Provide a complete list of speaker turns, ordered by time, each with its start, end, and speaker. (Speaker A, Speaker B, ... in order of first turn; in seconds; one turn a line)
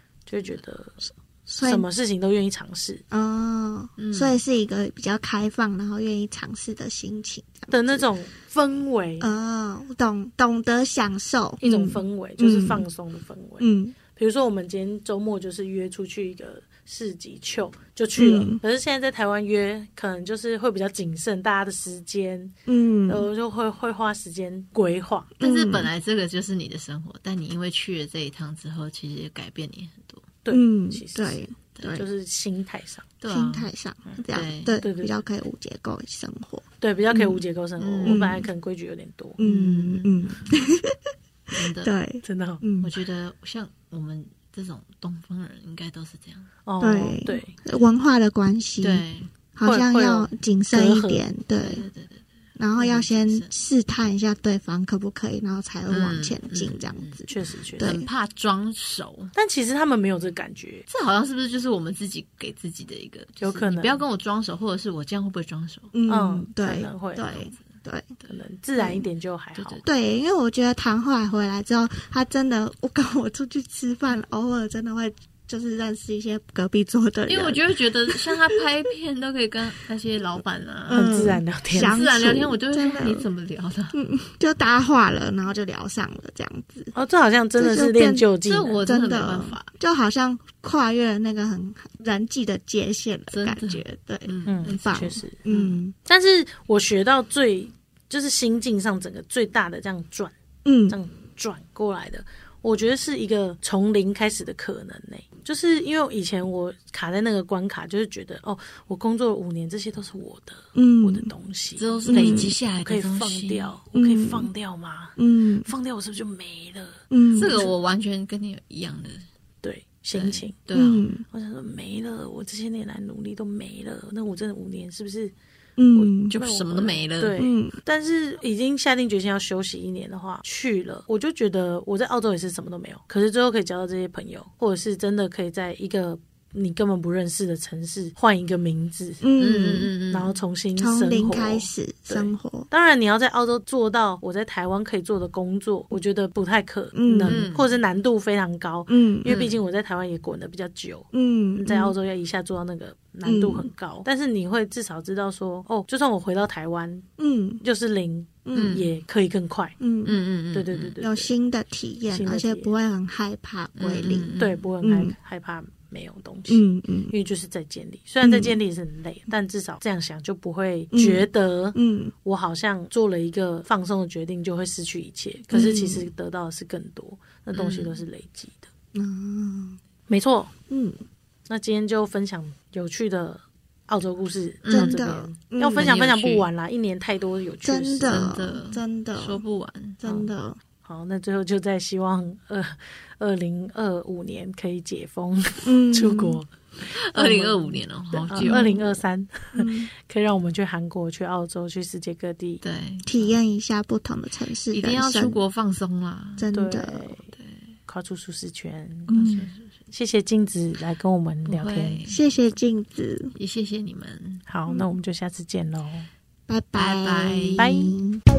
Speaker A: 0.2-3.0
Speaker B: 1.5-1.8
Speaker B: 3.1-8.1
Speaker C: 4.0-4.4
Speaker A: 7.7-9.3
Speaker B: 9.2-12.8
Speaker A: 11.6-22.5
Speaker B: 13.6-13.9
Speaker B: 18.2-18.6
Speaker B: 22.7-23.2
Speaker A: 23.1-25.3
Speaker B: 25.4-25.9
Speaker C: 25.4-30.3
Speaker A: 30.4-33.0
Speaker B: 30.5-32.1
Speaker C: 33.2-33.7
Speaker B: 33.3-37.4
Speaker C: 34.3-34.8
Speaker A: 34.8-35.1
Speaker A: 36.8-39.4
Speaker C: 37.8-38.3
Speaker B: 38.0-38.5
Speaker C: 39.4-40.6
Speaker B: 39.4-42.9
Speaker C: 41.5-41.9
Speaker A: 42.2-42.6
Speaker C: 42.8-46.5
Speaker A: 46.6-47.5
Speaker B: 46.8-49.0
Speaker C: 48.8-49.3
Speaker B: 49.5-51.9
Speaker A: 49.6-51.2
Speaker C: 51.6-52.2
Speaker B: 52.6-58.1
Speaker C: 52.8-53.5
Speaker C: 55.9-57.2
Speaker A: 57.3-58.0
Speaker C: 57.8-59.3
Speaker A: 59.3-60.8
Speaker C: 60.9-65.9
Speaker A: 63.4-64.0
Speaker B: 65.9-68.2
Speaker A: 66.1-67.3
Speaker C: 67.3-68.4
Speaker A: 68.3-69.8
Speaker B: 68.8-69.0
Speaker C: 69.5-69.8
Speaker B: 69.8-78.6
Speaker C: 77.3-83.9
Speaker A: 80.9-82.0
Speaker B: 80.9-83.2
Speaker B: 83.9-86.9
Speaker A: 86.9-88.8
Speaker B: 87.6-88.3
Speaker C: 88.5-89.7
Speaker B: 88.8-95.9
Speaker C: 93.3-95.8
Speaker A: 94.5-95.4
Speaker A: 96.0-100.3
Speaker B: 100.6-101.0
Speaker A: 100.9-117.7
Speaker B: 110.7-111.3
Speaker C: 111.8-113.7
Speaker B: 112.1-112.5
Speaker B: 113.9-114.5
Speaker B: 115.2-115.7
Speaker B: 117.1-117.6
Speaker C: 117.3-119.2
Speaker A: 119.6-120.5
Speaker C: 120.1-121.1
Speaker B: 120.7-121.2
Speaker A: 121.3-125.3
Speaker B: 125.8-126.3
Speaker A: 125.9-139.2
Speaker C: 126.3-127.4
Speaker B: 127.4-127.7
Speaker B: 139.2-139.9
Speaker C: 139.4-140.3
Speaker A: 140.1-157.1
Speaker B: 140.8-142.7
Speaker B: 146.9-147.4
Speaker C: 147.2-147.7
Speaker B: 148.9-149.3
Speaker C: 149.2-149.6
Speaker B: 151.1-151.9
Speaker B: 153.2-153.7
Speaker B: 157.2-157.6
Speaker A: 157.6-159.8
Speaker B: 158.4-158.8
Speaker C: 158.5-158.8
Speaker B: 159.8-160.2
Speaker C: 160.0-160.9
Speaker A: 160.5-161.3
Speaker B: 161.0-164.3
Speaker A: 162.1-162.7
Speaker C: 163.8-164.7
Speaker A: 164.4-178.7
Speaker B: 164.8-165.1
Speaker B: 166.5-167.1
Speaker B: 168.2-168.6
Speaker B: 170.9-172.1
Speaker B: 175.5-176.1
Speaker C: 177.5-178.0
Speaker B: 178.9-179.8
Speaker A: 180.1-180.5
Speaker B: 180.7-181.0
Speaker A: 181.5-188.3
Speaker C: 184.6-185.0
Speaker B: 184.7-185.9
Speaker C: 185.8-186.5
Speaker B: 187.6-189.4
Speaker C: 188.1-190.0
Speaker B: 190.0-190.6
Speaker A: 190.8-196.5
Speaker B: 195.6-196.4
Speaker C: 196.9-198.8
Speaker A: 197.1-202.6
Speaker B: 198.3-198.9
Speaker B: 199.6-199.9
Speaker C: 202.6-203.3
Speaker B: 203.1-205.4
Speaker C: 204.7-206.5
Speaker B: 206.4-207.1
Speaker A: 206.5-207.2
Speaker C: 207.3-207.7
Speaker A: 207.9-212.0
Speaker C: 209.1-209.7
Speaker B: 209.1-209.5
Speaker C: 211.4-212.2
Speaker B: 212.1-213.3
Speaker C: 213.3-214.4
Speaker A: 214.5-216.1
Speaker B: 216.5-218.2
Speaker C: 216.7-217.7
Speaker A: 217.6-217.9